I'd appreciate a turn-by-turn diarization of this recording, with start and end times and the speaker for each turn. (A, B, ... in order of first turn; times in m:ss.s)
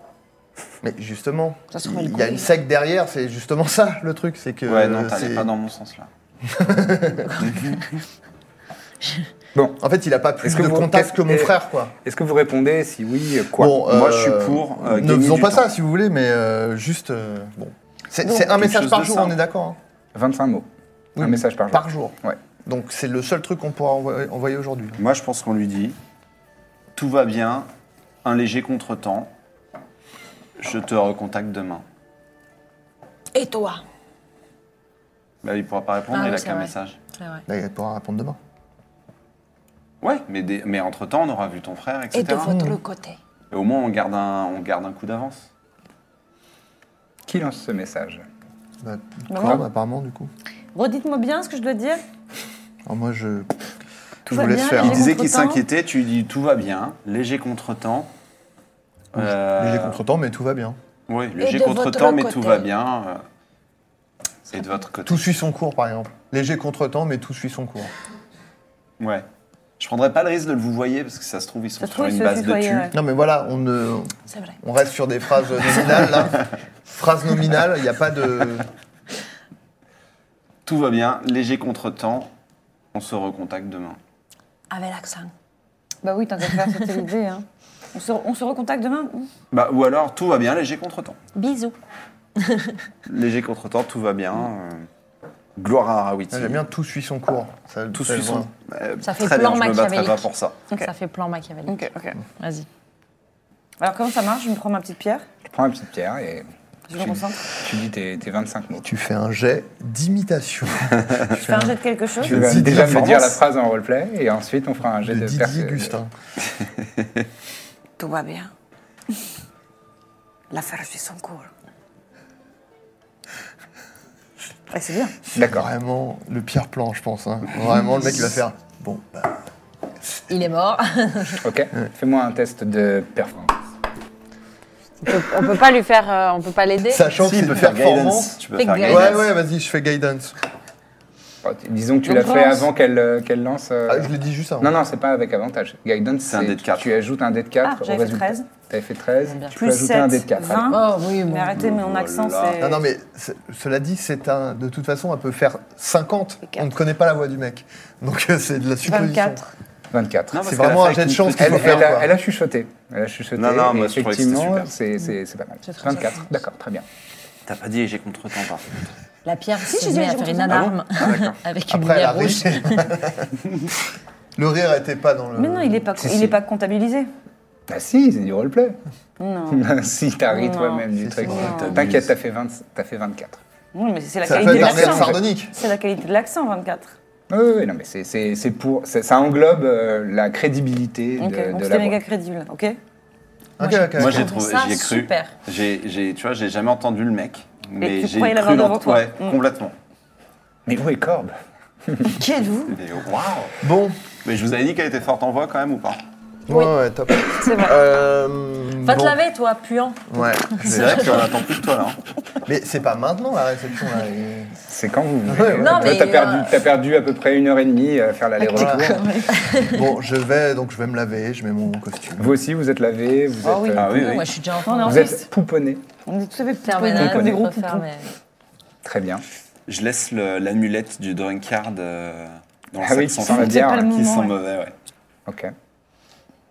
0:00.8-0:05.5 A
0:01.7-0:02.6 B
0:04.7-0:06.1 C
0:06.4-0:07.6 A
0:07.4-0:07.7 C
0:09.6-0:09.8 D
0:09.8-0:11.9 A
0:10.4-0:13.8 D
0:13.6-0:19.8 A
0:13.9-0:15.7 C
0:18.3-0:19.4 C
0:20.1-0:20.7 D
0:21.2-0:25.0 A
0:21.2-0:22.4 D
0:25.0-0:26.0 C
0:27.0-0:27.7 C
0:28.2-0:29.3 C
0:30.6-0:31.8 C
0:33.3-0:33.8 B
0:35.4-0:37.0 C
0:36.1-0:37.4 B
0:37.5-0:38.4 A
0:40.0-0:42.5 C
0:42.1-0:43.2 B
0:42.4-0:42.8 A
0:43.5-0:45.5 C
0:47.3-0:48.2 D
0:48.8-0:50.3 A
0:49.3-0:49.6 E
0:50.8-0:52.0 E
0:52.9-0:53.6 A
0:54.3-0:55.1 A
0:54.3-0:55.6 E
0:54.7-0:58.1 C
0:59.1-1:00.0 C
0:59.2-1:00.8 A
1:01.1-1:03.2 C
1:01.4-1:02.7 B
1:04.5-1:05.3 C
1:05.1-1:07.9 A
1:09.0-1:09.3 C
1:09.8-1:12.9 C
1:11.8-1:12.9 E
1:12.9-1:18.7 A
1:14.3-1:14.6 B
1:20.6-1:22.3 C
1:22.9-1:24.0 C
1:24.7-1:25.3 B
1:26.0-1:29.3 E
1:29.5-1:31.2 C
1:31.4-1:31.8 B
1:32.4-1:32.8 B
1:33.1-1:34.9 C
1:35.6-1:36.6 C
1:36.3-1:38.5 A
1:37.9-1:40.6 C
1:39.0-1:40.2 B
1:40.8-1:41.8 B
1:41.7-1:42.2 E
1:42.4-1:42.7 B
1:43.8-1:45.3 E
1:45.4-1:46.5 D
1:46.9-1:47.5 E
1:47.6-1:48.9 D
1:48.8-1:53.3 A
1:51.3-1:52.4 E
1:52.2-1:55.9 D
1:52.6-1:53.3 C
1:55.0-1:56.1 A
1:58.0-1:58.5 E
2:00.5-2:01.5 E
2:04.7-2:05.2 E
2:05.3-2:09.4 A
2:05.4-2:05.7 D
2:10.3-2:11.4 B
2:11.4-2:13.5 D
2:15.0-2:17.0 B
2:16.8-2:20.4 A
2:17.2-2:19.3 C
2:18.6-2:19.2 B
2:21.4-2:30.8 D
2:22.0-2:22.7 E
2:23.9-2:24.7 A
2:26.2-2:26.9 C
2:27.6-2:28.5 E
2:29.5-2:32.8 E
2:30.7-2:31.6 B
2:31.6-2:32.6 C
2:32.6-2:39.4 A
2:38.8-2:39.5 E
2:39.9-2:40.4 D
2:40.3-2:41.9 C
2:40.4-2:42.1 A
2:41.4-2:46.8 D
2:43.4-2:44.7 C
2:45.6-2:46.3 B
2:47.5-2:48.7 C
2:49.2-2:52.9 B
2:49.6-2:50.8 E
2:50.5-2:51.4 C
2:51.7-2:53.3 A
2:54.4-2:55.9 A
2:55.4-2:57.1 E
2:56.0-2:56.4 D
2:57.7-2:58.8 D
2:59.2-2:59.7 E
2:59.5-3:03.4 D
3:00.3-3:01.9 E
3:01.0-3:01.5 A
3:01.3-3:02.1 C
3:03.7-3:06.9 E
3:04.2-3:05.5 A
3:04.4-3:05.2 D
3:07.3-3:12.0 D
3:11.2-3:12.8 E
3:13.6-3:14.3 A
3:13.6-3:15.3 B
3:14.0-3:19.7 C
3:17.8-3:19.4 E
3:20.7-3:21.4 D
3:21.9-3:22.1 D
3:22.1-3:22.8 E
3:22.7-3:23.6 C
3:23.6-3:24.0 A
3:24.2-3:26.0 C
3:26.5-3:29.2 A
3:27.4-3:27.7 B
3:28.8-3:31.0 B
3:30.1-3:31.3 A
3:30.6-3:32.0 C
3:32.4-3:34.6 A
3:34.7-3:39.1 D
3:35.3-3:36.2 A
3:35.6-3:36.6 B
3:38.4-3:39.5 E
3:38.5-3:38.9 A
3:39.3-3:39.8 B
3:39.6-3:42.4 A
3:42.2-3:44.2 D
3:43.4-3:44.1 E
3:43.8-3:44.3 C
3:43.9-3:45.2 B
3:44.6-3:45.3 E
3:44.8-3:45.8 D
3:46.0-3:47.8 E
3:46.6-3:48.1 B
3:47.0-3:47.4 D
3:48.8-3:49.2 D
3:49.7-3:54.8 C
3:52.8-3:53.9 D
3:53.3-3:54.4 E
3:55.3-3:55.5 D